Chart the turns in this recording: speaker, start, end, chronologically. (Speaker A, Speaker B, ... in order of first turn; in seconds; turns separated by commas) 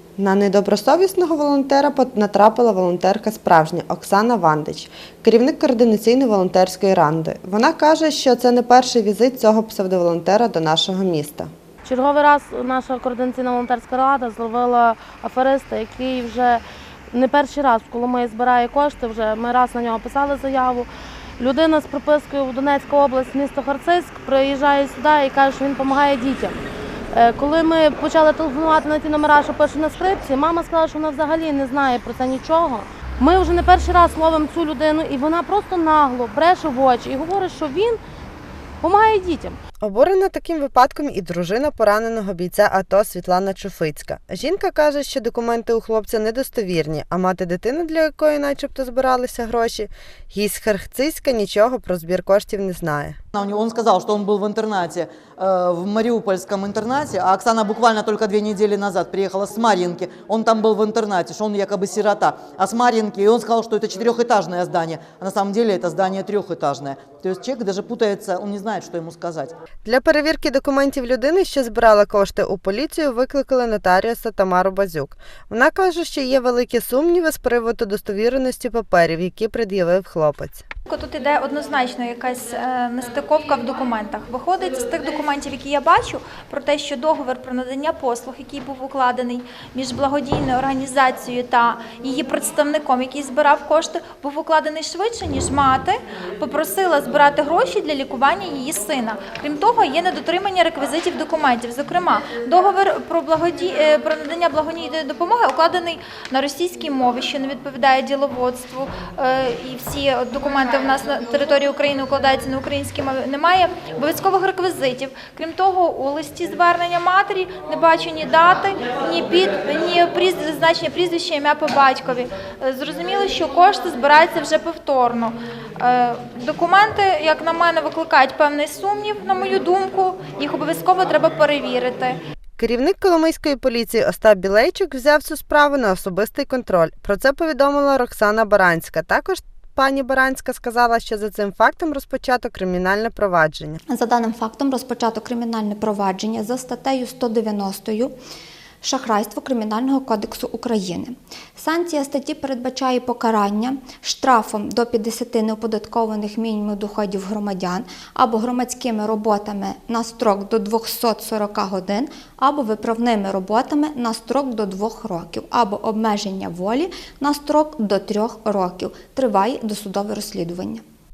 Speaker A: 0.2-11.5, Speaker B: 11.8-20.9, Speaker B: 21.4-26.6, Speaker B: 27.1-38.0, Speaker B: 38.8-39.6, Speaker A: 39.8-53.2, Speaker C: 53.4-69.5, Speaker A: 69.8-80.6, Speaker D: 80.9-132.2, Speaker A: 132.6-143.8, Speaker E: 143.9-148.1, Speaker E: 148.8-170.8